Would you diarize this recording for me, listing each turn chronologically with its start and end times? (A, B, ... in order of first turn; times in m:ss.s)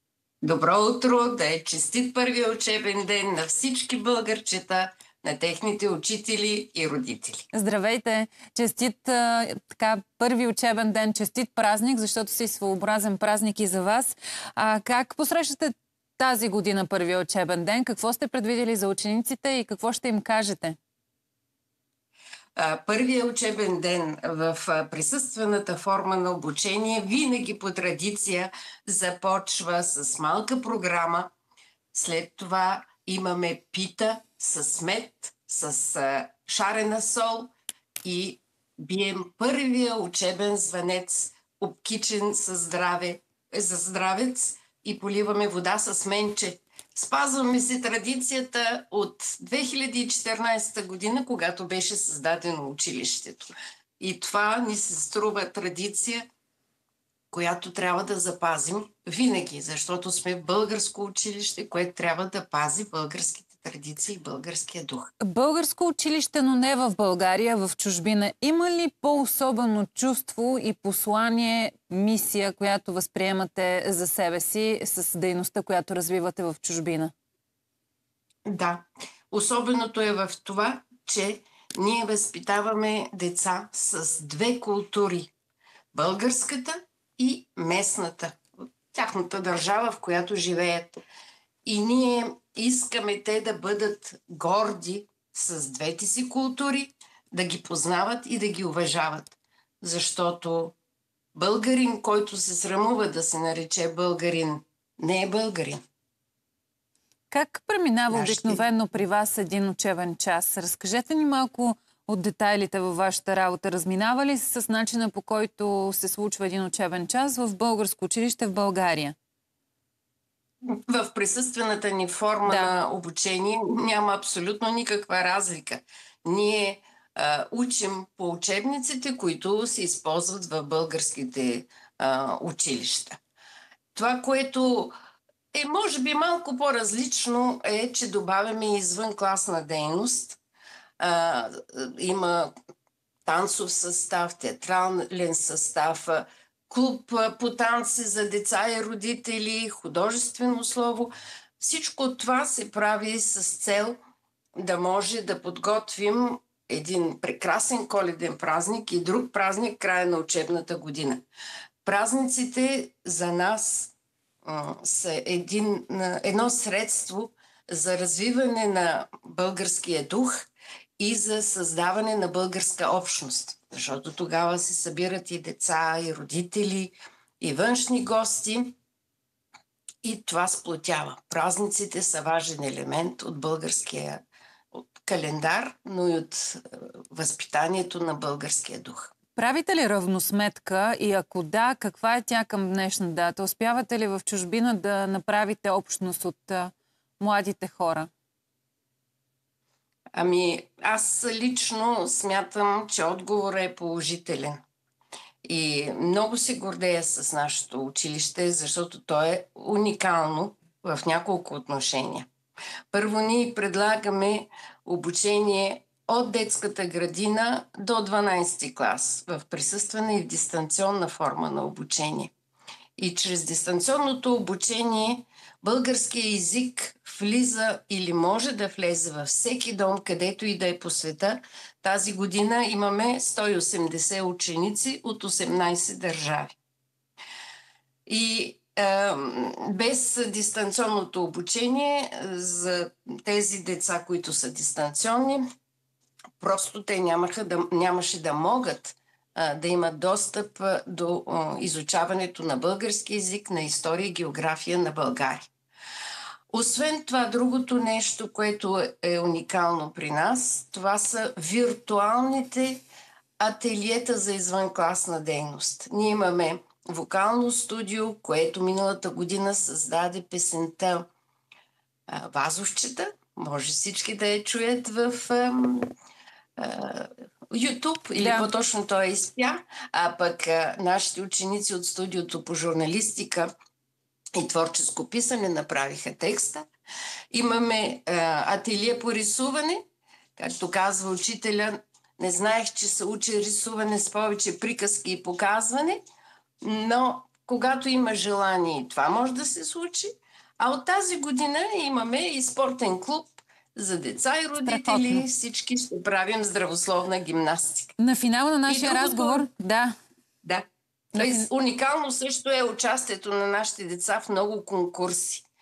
0:00.4-0:07.4 A
0:07.5-0:20.8 B
0:22.6-0:31.3 A
0:31.9-0:37.5 A
0:38.0-0:56.2 A
0:57.3-1:05.1 A
1:05.2-1:17.1 B
1:18.4-1:25.3 A
1:25.9-1:30.9 A
1:31.6-1:40.7 A
1:41.3-1:45.8 A
1:47.3-1:59.1 B
1:48.1-1:48.6 A
2:00.6-2:13.2 A
2:02.4-2:02.7 B
2:13.9-2:14.9 A
2:15.5-2:20.4 A
2:21.0-2:22.5 A
2:23.2-2:34.0 A
2:34.6-2:41.2 A
2:41.8-2:50.5 A
2:51.0-2:58.8 A
3:00.0-3:09.1 A
3:09.4-3:18.1 B
3:20.1-3:24.6 A
3:25.4-3:32.3 A
3:32.9-3:42.3 A
3:43.0-3:56.5 A
3:58.0-4:05.4 A
4:06.4-4:15.5 A
4:16.5-4:22.8 A
4:23.4-4:31.1 A
4:32.1-4:35.9 A
4:36.6-4:43.5 A
4:38.2-4:38.5 B
4:44.4-4:46.6 A
4:47.3-4:49.8 A
4:50.4-4:56.0 A
4:56.6-5:07.9 A
5:04.6-5:05.3 B
5:08.0-5:09.9 B
5:08.7-5:09.5 A
5:10.4-5:15.4 A
5:11.1-5:11.5 B